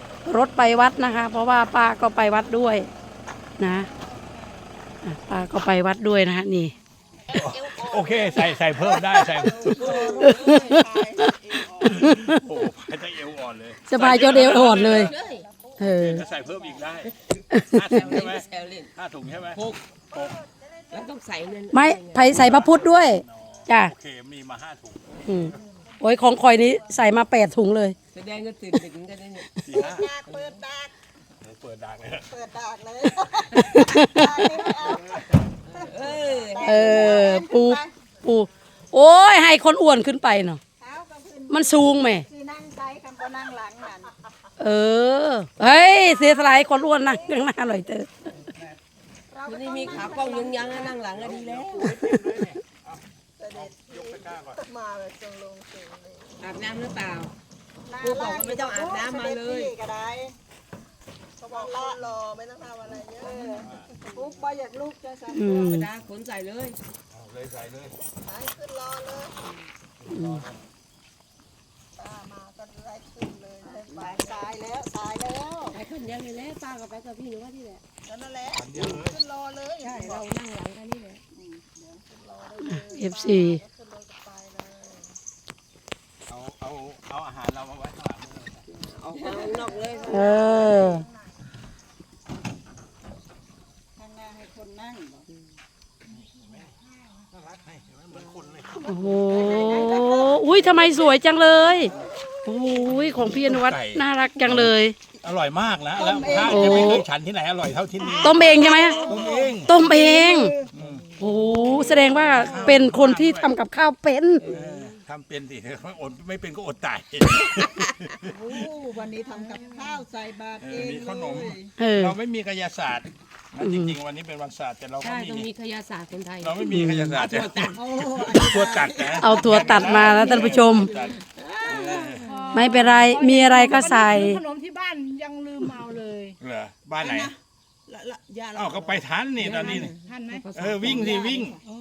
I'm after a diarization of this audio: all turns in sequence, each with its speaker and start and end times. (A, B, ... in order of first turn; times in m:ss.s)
0:00.2-0:02.9 A
0:03.6-0:03.9 A
0:05.0-0:06.7 A
0:07.3-0:10.1 B
0:09.5-0:10.7 C
0:09.6-0:12.0 D
0:10.2-0:11.3 A
0:11.8-0:15.1 B
0:11.8-0:12.4 A
0:13.9-0:15.1 A
0:14.6-0:15.5 C
0:15.8-0:16.2 A
0:15.9-0:20.4 B
0:17.8-0:18.9 C
0:20.9-0:22.3 C
0:21.7-0:23.9 A
0:22.3-0:25.5 B
0:25.2-0:28.0 A
0:28.1-0:29.5 C
0:29.6-0:30.2 B
0:29.7-0:30.9 D
0:30.2-0:30.6 C
0:31.4-0:32.3 B
0:32.3-0:35.2 D
0:33.7-0:34.4 A
0:35.7-0:37.9 D
0:35.8-0:37.1 C
0:36.6-0:40.6 A
0:40.8-0:44.1 D
0:41.5-0:42.2 A
0:44.6-0:48.1 A
0:49.3-0:51.5 D
0:49.5-0:52.0 C
0:51.3-0:52.8 B
0:53.4-0:56.4 D
0:53.6-0:54.6 B
0:56.4-0:57.3 C
0:57.9-1:00.4 D
0:58.0-0:59.7 C
1:01.4-1:05.8 D
1:03.2-1:03.6 C
1:05.3-1:05.9 A
1:05.5-1:06.8 C
1:07.1-1:08.0 B
1:08.2-1:09.4 D
1:10.1-1:10.4 A
1:12.0-1:15.8 D
1:13.6-1:14.5 C
1:15.7-1:17.8 C
1:18.1-1:20.2 D
1:18.5-1:19.2 B
1:19.8-1:21.2 C
1:21.4-1:25.1 D
1:22.7-1:23.6 A
1:26.3-1:28.6 B
1:28.8-1:30.5 C
1:29.4-1:31.3 D
1:30.1-1:31.0 A
1:34.0-1:35.2 D
1:37.4-1:38.9 B
1:38.8-1:41.9 A
1:38.9-1:40.6 D
1:42.0-1:43.3 D
1:42.4-1:45.0 A
1:43.4-1:49.8 B
1:46.0-1:47.0 D
1:46.4-1:47.0 A
1:48.0-1:50.7 D
1:48.2-1:49.1 A
1:49.6-1:50.6 A
1:50.7-1:51.0 B
1:51.2-1:54.5 A
1:51.7-1:53.5 B
1:54.4-1:55.0 C
1:54.4-1:58.2 B
1:58.2-2:01.7 D
2:00.6-2:05.5 B
2:01.8-2:02.2 A
2:03.6-2:03.9 A
2:05.0-2:07.8 C
2:06.4-2:12.4 B
2:06.7-2:07.2 A
2:07.7-2:09.3 D
2:09.2-2:10.9 A
2:10.8-2:12.4 C
2:11.8-2:12.0 D
2:12.2-2:16.4 E
2:12.5-2:14.4 A
2:16.4-2:17.3 B
2:17.0-2:17.3 D
2:17.9-2:19.0 D
2:18.5-2:19.9 B
2:19.4-2:21.4 C
2:20.1-2:20.4 E
2:20.5-2:21.6 B
2:21.0-2:21.6 D